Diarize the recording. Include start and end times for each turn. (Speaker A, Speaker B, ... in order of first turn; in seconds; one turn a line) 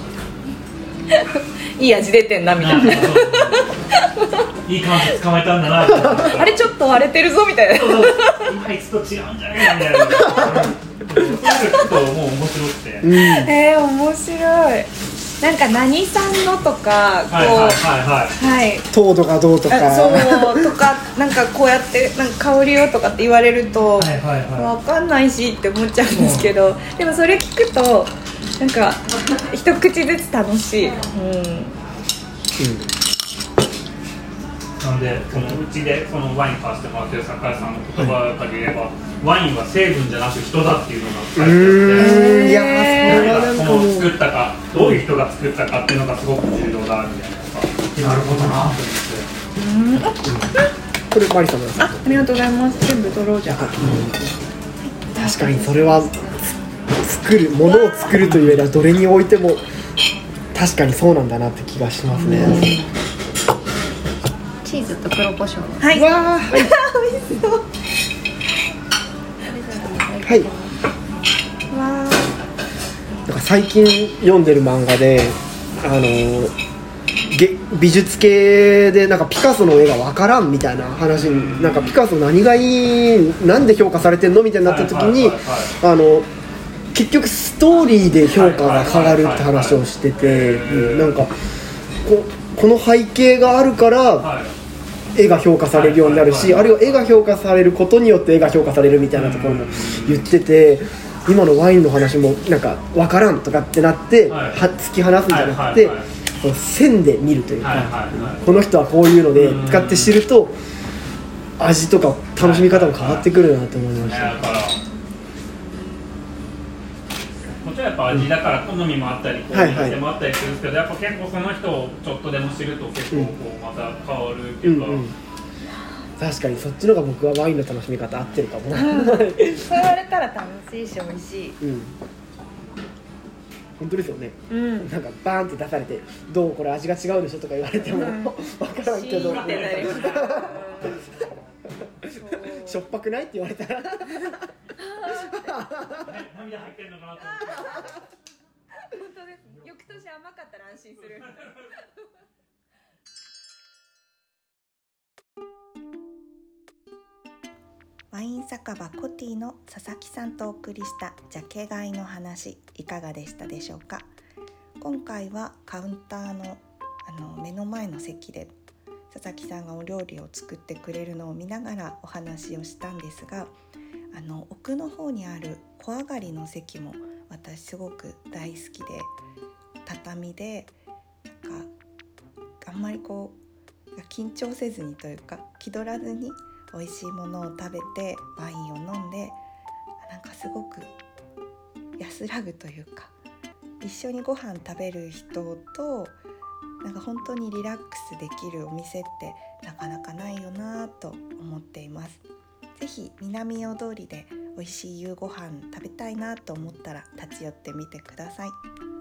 Speaker A: 1.1-4.4
Speaker B: 2.5-3.7
Speaker B: 4.7-6.6
Speaker A: 6.3-8.5
Speaker B: 7.7-13.1
Speaker A: 10.1-10.4
Speaker C: 13.0-13.5
Speaker A: 13.1-14.9
Speaker A: 15.4-17.8
Speaker B: 17.3-18.4
Speaker A: 18.4-18.9
Speaker C: 18.9-20.7
Speaker A: 19.7-31.7
Speaker B: 24.0-24.7
Speaker B: 26.1-26.5
Speaker C: 32.6-32.9
Speaker B: 34.8-42.4
Speaker C: 35.3-35.6
Speaker C: 41.4-44.1
Speaker A: 42.0-43.4
Speaker B: 42.9-49.3
Speaker C: 44.7-45.0
Speaker C: 48.0-48.8
Speaker A: 49.5-50.2
Speaker C: 50.2-50.5
Speaker C: 51.1-52.3
Speaker A: 51.8-54.0
Speaker C: 53.5-54.3
Speaker C: 55.1-56.3
Speaker A: 55.2-55.6
Speaker D: 55.2-56.4
Speaker C: 57.0-59.6
Speaker B: 58.2-58.6
Speaker C: 60.5-62.7
Speaker A: 62.1-62.9
Speaker D: 64.6-65.9
Speaker A: 65.8-67.6
Speaker C: 65.9-66.7
Speaker D: 69.4-70.8
Speaker A: 71.7-72.3
Speaker C: 73.3-76.5
Speaker C: 77.3-86.3
Speaker B: 81.2-82.0
Speaker B: 84.6-85.7
Speaker C: 86.9-91.3
Speaker B: 88.3-91.2
Speaker C: 92.0-94.3
Speaker B: 94.2-94.5
Speaker C: 95.1-110.6
Speaker B: 95.7-97.0
Speaker B: 99.1-100.2
Speaker B: 104.3-104.6
Speaker B: 105.3-106.0
Speaker B: 107.6-108.4
Speaker B: 109.3-110.2
Speaker C: 111.6-114.6
Speaker B: 112.4-113.3
Speaker B: 114.0-114.8
Speaker B: 117.6-125.0
Speaker C: 119.5-120.0
Speaker C: 124.6-125.1
Speaker C: 126.2-129.9
Speaker A: 128.7-131.6
Speaker C: 131.6-131.9
Speaker C: 133.8-141.0
Speaker A: 134.5-134.9
Speaker A: 137.9-141.0
Speaker B: 139.1-141.1
Speaker A: 142.1-142.8
Speaker C: 142.3-144.4
Speaker A: 144.8-145.5
Speaker C: 145.1-146.0
Speaker B: 146.0-147.8
Speaker A: 147.3-147.9
Speaker A: 148.8-151.8
Speaker B: 151.2-151.7
Speaker E: 158.1-164.1
Speaker E: 164.8-168.5
Speaker E: 169.1-173.5
Speaker E: 174.1-179.1
Speaker E: 179.8-180.7
Speaker E: 181.4-181.7
Speaker E: 182.6-183.4
Speaker E: 183.9-189.4
Speaker E: 190.0-190.9
Speaker E: 192.0-193.1
Speaker E: 193.8-196.2
Speaker E: 196.8-202.2
Speaker E: 202.8-208.6